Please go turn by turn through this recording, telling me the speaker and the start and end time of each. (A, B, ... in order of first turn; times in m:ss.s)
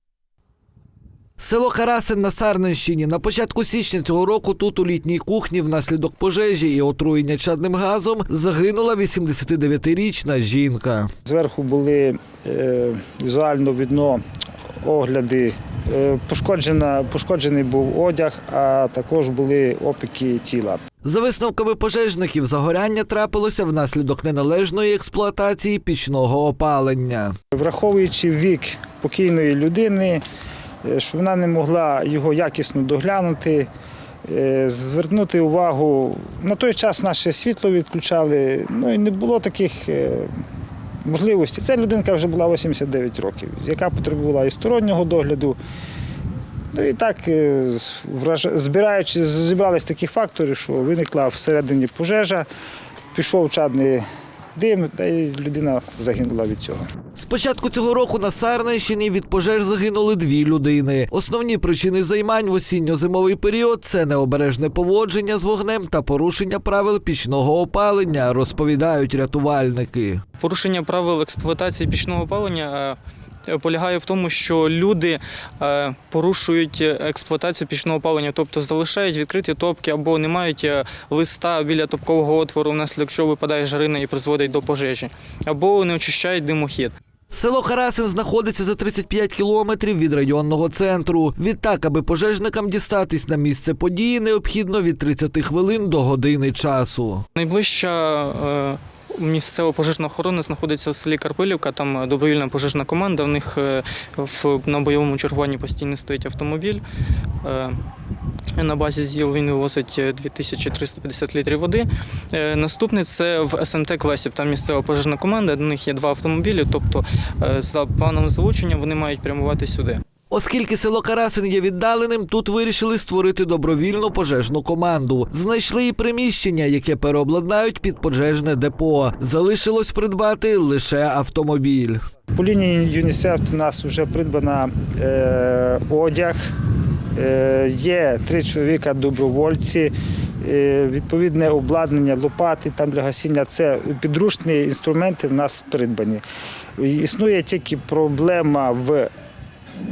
0:01.4-0:11.1 A
0:11.2-0:14.2 B
0:14.8-0:20.8 B
0:21.0-0:27.3 A
0:27.5-0:30.2 B
0:30.8-0:33.7 B
0:34.3-0:40.3 B
0:41.0-0:45.6 B
0:46.7-0:52.5 B
0:53.1-0:54.0 B
0:54.5-0:56.8 B
0:57.2-1:10.2 A
1:10.4-1:26.9 C
1:27.3-1:37.2 A
1:37.3-1:46.8 C
1:47.4-1:47.8 C
1:48.6-2:00.0 C
2:00.3-2:12.0 A
2:12.3-2:16.4 B
2:17.2-2:26.2 B
2:26.8-2:29.1 B